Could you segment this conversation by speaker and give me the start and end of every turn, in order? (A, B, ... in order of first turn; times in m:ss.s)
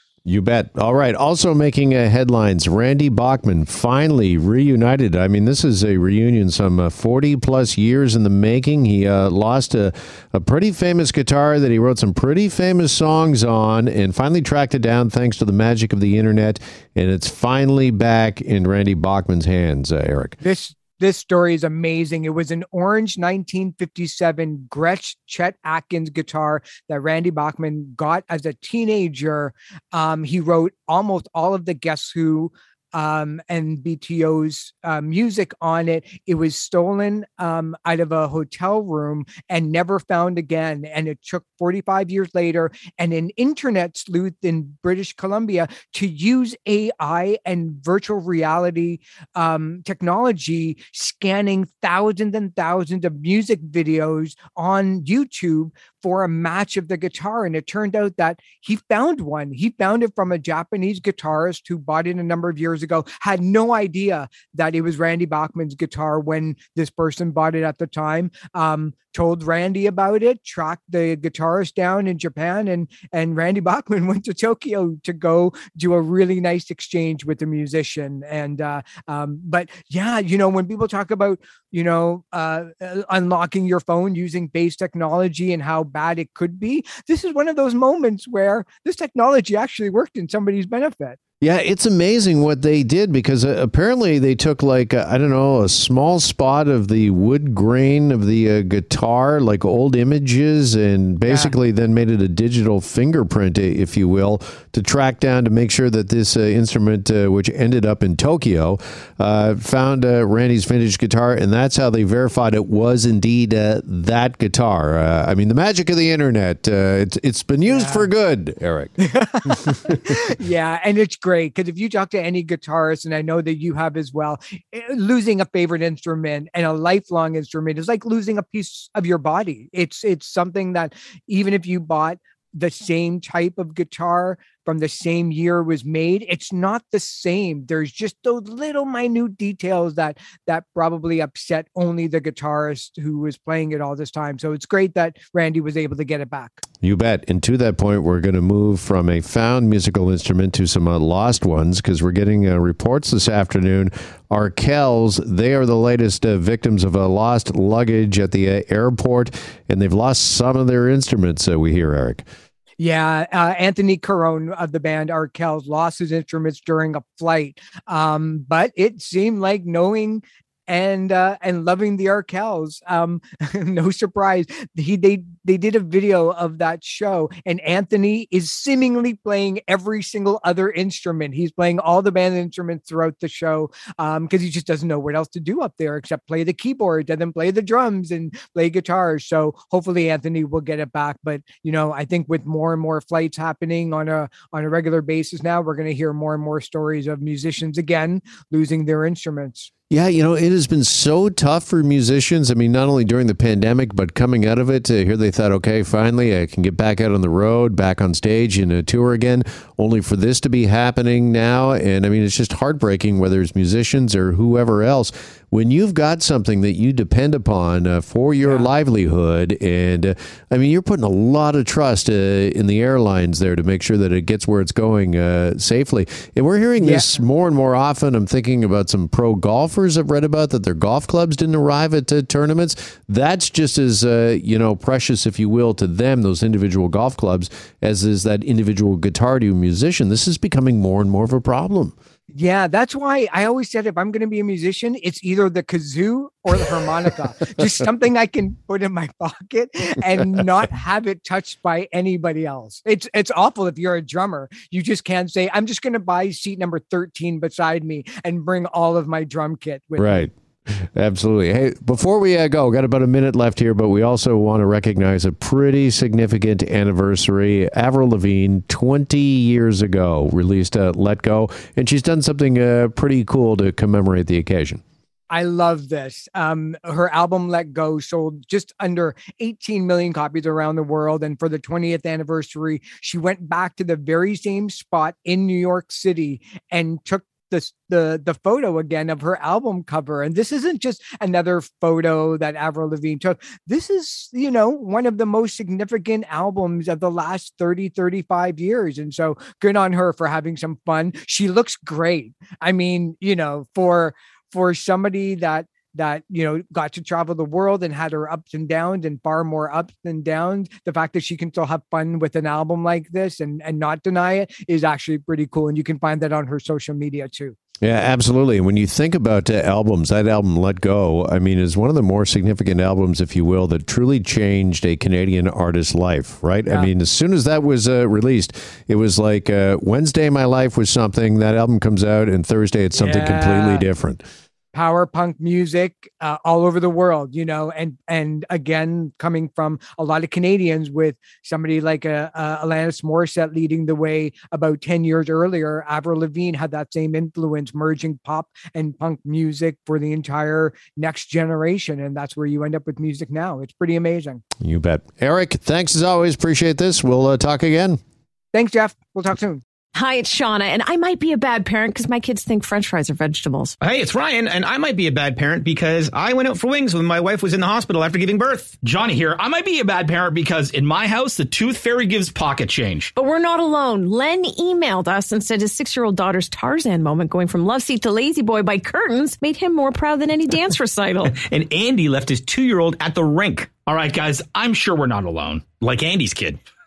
0:00.3-0:20.4 A
0:20.4-1:31.2 B
1:31.4-1:58.9 A
1:41.3-1:41.6 B
1:57.7-1:58.1 B
1:59.0-2:26.6 B
1:59.6-1:59.9 A
2:26.8-2:42.3 A
2:42.8-3:19.7 B
3:19.9-4:02.0 A
3:38.4-3:38.7 B
3:46.8-3:47.1 B
4:02.3-4:20.3 B
4:20.0-4:34.8 A
4:35.3-5:17.6 B
5:17.8-5:34.2 A
5:33.0-5:33.9 B
5:34.7-5:54.4 B
5:54.6-5:58.0 A
5:58.5-5:59.6 B
6:00.0-6:03.8 C
6:04.7-6:08.5 D
6:08.8-6:13.1 E
6:13.2-6:21.4 C
6:21.3-6:26.6 E